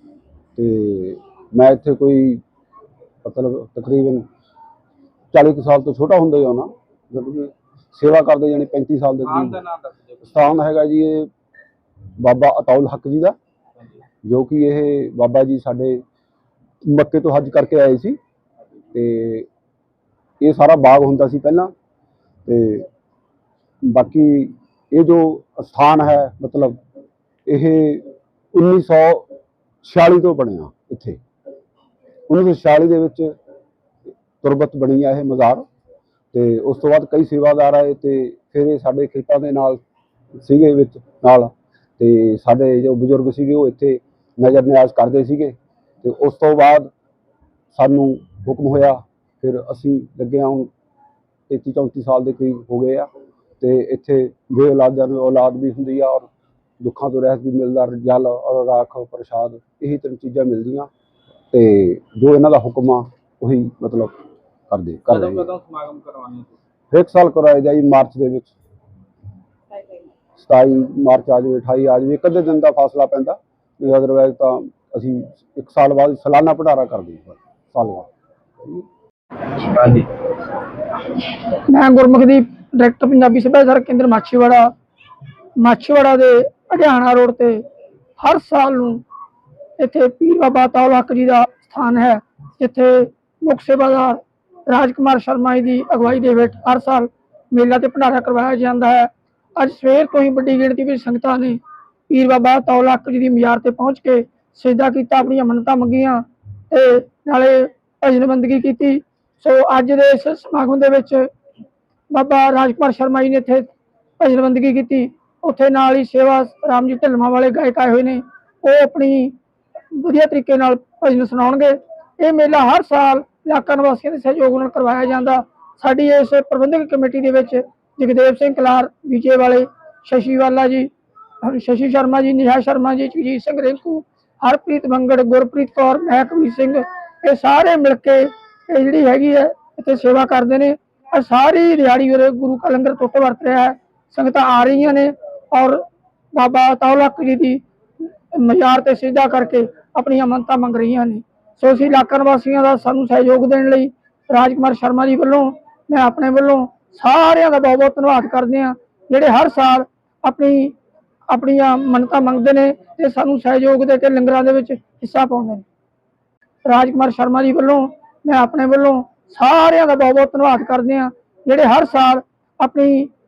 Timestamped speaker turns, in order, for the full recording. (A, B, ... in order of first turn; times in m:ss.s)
0:00.6-0:02.4 A
0:03.2-0:04.2 A
0:05.3-0:09.6 A
0:09.2-0:10.4 B
0:10.2-0:11.3 A
0:12.2-0:13.4 A
0:14.2-0:16.0 A
0:16.8-0:18.2 A
0:18.9-0:19.5 A
0:20.4-0:21.7 A
0:22.5-0:22.9 A
0:23.8-0:26.8 A
0:27.5-0:29.3 A
0:29.8-0:31.2 A
0:32.3-0:33.3 A
0:34.4-0:35.7 A
0:36.3-0:39.8 A
0:40.4-0:46.9 A
0:47.7-0:50.7 A
0:51.5-0:53.1 A
0:53.6-0:56.3 A
0:56.8-1:00.9 A
1:01.5-1:04.1 A
1:04.7-1:05.5 A
1:05.1-1:06.6 B
1:06.9-1:08.5 A
1:10.4-1:18.1 A
1:19.6-1:20.1 B
1:21.7-1:24.7 C
1:25.6-1:27.6 C
1:28.2-1:29.0 C
1:29.8-1:51.3 C
1:52.1-1:53.7 C
1:54.2-1:59.4 C
1:59.9-2:27.6 C
2:28.3-2:40.8 C
2:41.3-2:45.6 C
2:46.6-2:53.1 C